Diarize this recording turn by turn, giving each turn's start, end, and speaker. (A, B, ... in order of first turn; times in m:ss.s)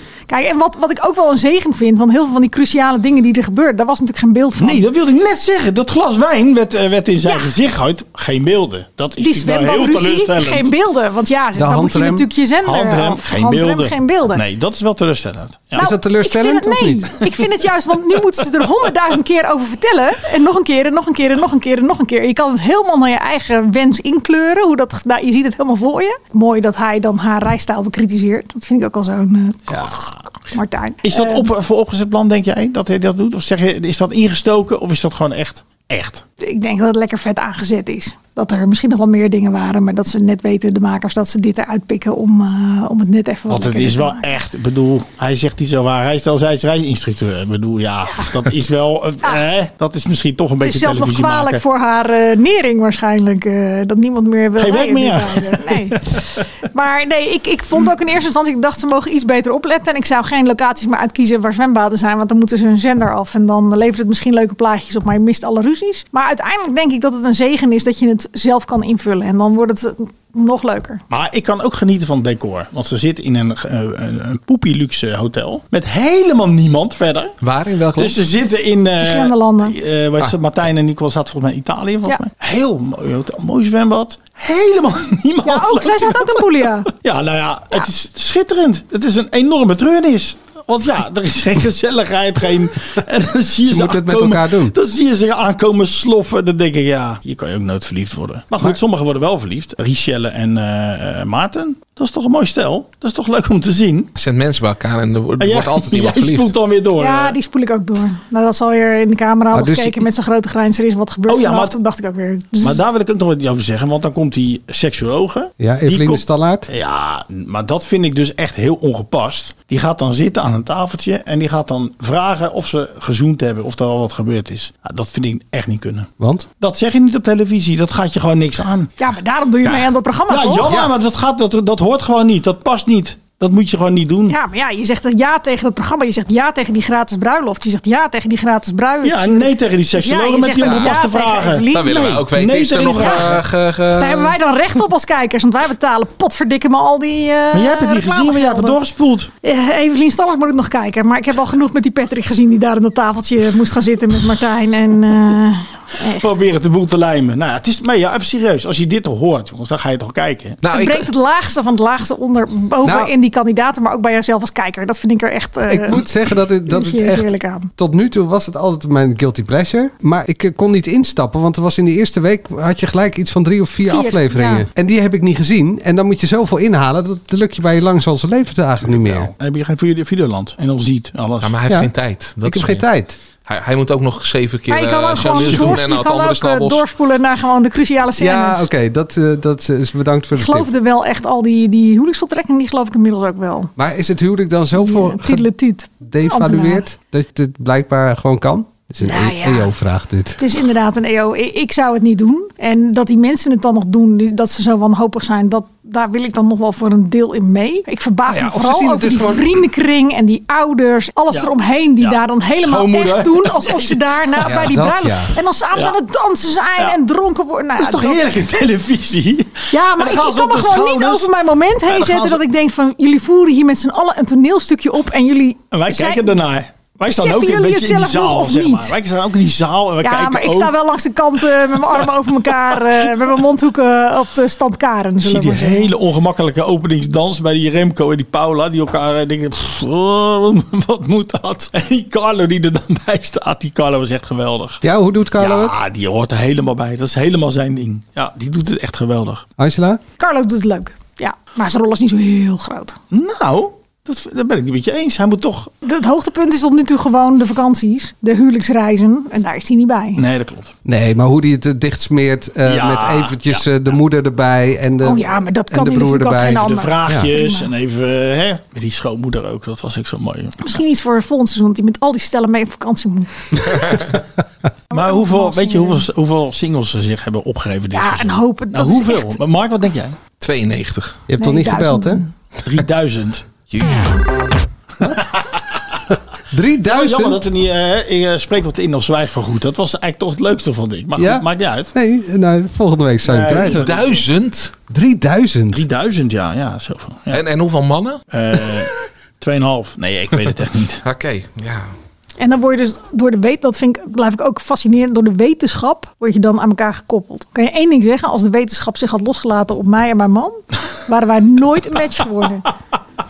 0:00.3-0:04.8 A
0:04.6-0:10.7 B
0:09.2-0:14.4 A
0:11.6-0:12.3 C
0:12.6-0:15.9 B
0:15.8-0:31.5 A
0:15.8-0:17.1 C
0:29.7-0:30.1 B
0:31.0-0:36.2 B
0:36.4-0:44.3 A
0:43.5-0:51.6 B
0:50.6-1:11.0 A
0:54.6-0:56.4 B
1:11.1-1:17.4 B
1:17.4-1:18.2 D
1:18.0-1:44.1 B
1:19.0-1:19.8 A
1:25.4-1:26.9 A
1:33.6-1:34.7 C
1:44.2-1:46.5 D
1:45.4-1:47.4 B
1:47.0-1:52.8 A
1:49.5-1:50.0 C
1:51.3-1:51.7 B
1:52.6-2:08.9 B
1:55.6-1:56.7 C
2:06.2-2:06.5 C
2:09.0-2:10.7 A
2:10.3-2:14.4 B
2:14.3-2:22.0 A
2:19.0-2:23.4 B
2:21.7-2:24.4 D
2:22.9-2:23.3 A
2:24.0-2:28.8 A
2:27.5-2:29.3 B
2:29.4-2:36.3 A
2:36.1-2:40.6 B
2:40.6-2:41.1 D
2:40.7-2:46.0 A
2:42.8-2:43.1 C
2:45.7-2:59.3 C
2:46.7-2:47.7 A
2:53.9-2:54.7 A
2:58.8-3:01.6 B
3:01.4-3:02.9 D
3:02.4-3:03.2 C
3:03.4-3:06.8 D
3:04.7-3:08.7 A
3:05.3-3:05.8 B
3:08.2-3:10.7 C
3:10.4-3:13.7 A
3:13.8-3:15.5 C
3:14.8-3:16.9 A
3:16.0-3:20.4 C
3:19.0-3:19.7 A
3:20.4-3:38.2 A
3:28.3-3:29.4 C
3:31.3-3:34.7 B
3:34.4-3:35.4 C
3:37.8-3:41.3 B
3:39.7-3:46.4 A
3:41.9-3:42.4 B
3:45.7-3:50.8 B
3:47.1-3:48.9 A
3:50.0-3:55.9 A
3:51.7-3:52.8 B
3:55.2-4:04.8 B
4:04.8-4:05.8 C
4:05.4-4:09.4 B
4:09.6-4:10.0 C
4:10.2-4:13.0 A
4:13.1-4:15.7 B
4:15.8-4:20.2 A
4:20.2-4:20.7 B
4:20.8-4:27.3 C
4:22.6-4:23.6 B
4:25.0-4:27.7 A
4:26.5-4:30.6 B
4:30.6-4:34.0 A
4:34.9-4:36.0 A
4:34.9-4:40.2 B
4:37.9-4:39.4 A
4:40.4-4:41.2 D
4:41.3-4:42.2 C
4:41.4-4:42.3 A
4:42.6-4:43.5 B
4:43.7-4:44.0 D
4:45.0-4:45.8 B
4:46.5-4:47.4 C
4:46.8-4:51.9 B
4:51.2-4:53.9 C
4:53.2-4:54.2 B
4:53.6-4:54.7 D
4:54.9-4:55.8 C
4:55.7-4:57.4 B
4:57.3-4:58.2 D
4:58.3-5:01.0 B
5:01.0-5:01.9 D
5:02.4-5:12.7 A